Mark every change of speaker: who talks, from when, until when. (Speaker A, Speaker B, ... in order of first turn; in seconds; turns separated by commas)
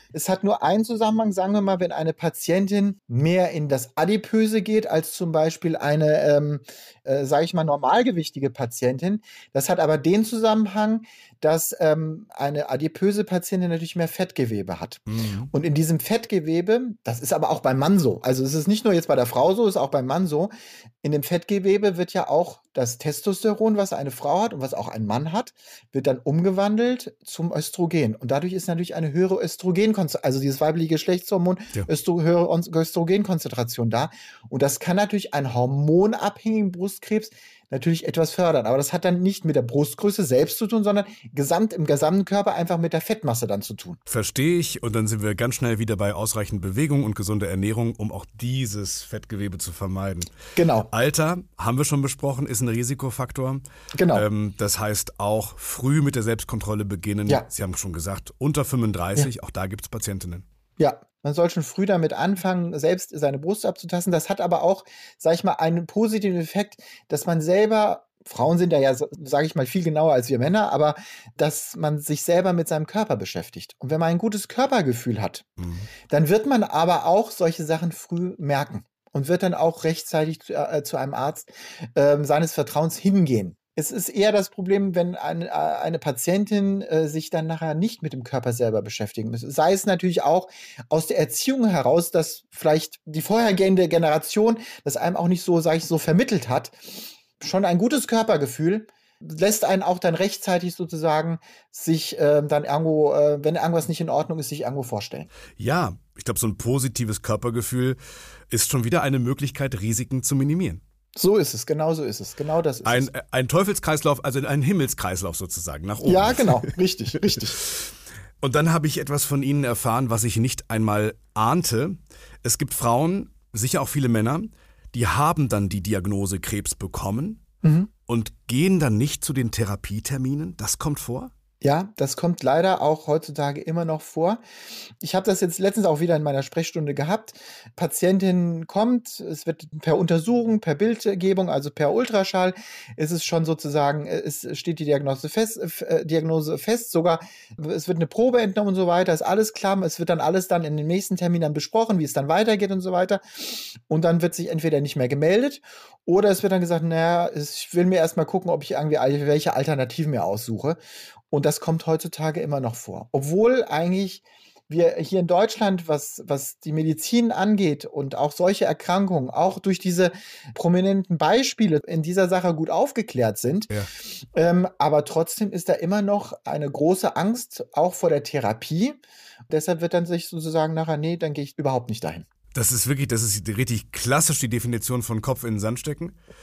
Speaker A: 0.1-20.5, Speaker B: 15.1-15.5, Speaker A: 21.0-44.0, Speaker B: 44.1-50.4, Speaker A: 50.5-50.9, Speaker B: 50.9-60.5, Speaker A: 53.9-54.3, Speaker A: 60.8-75.5, Speaker B: 75.6-75.9, Speaker A: 76.1-105.3, Speaker B: 105.6-108.0, Speaker B: 108.5-110.8, Speaker A: 111.2-113.1, Speaker B: 112.8-116.7, Speaker A: 116.0-117.6, Speaker B: 118.4-127.4, Speaker A: 127.6-127.9, Speaker B: 128.1-131.3, Speaker A: 131.6-134.4, Speaker A: 135.0-160.8, Speaker A: 161.3-173.7, Speaker A: 174.3-182.2, Speaker B: 182.5-186.2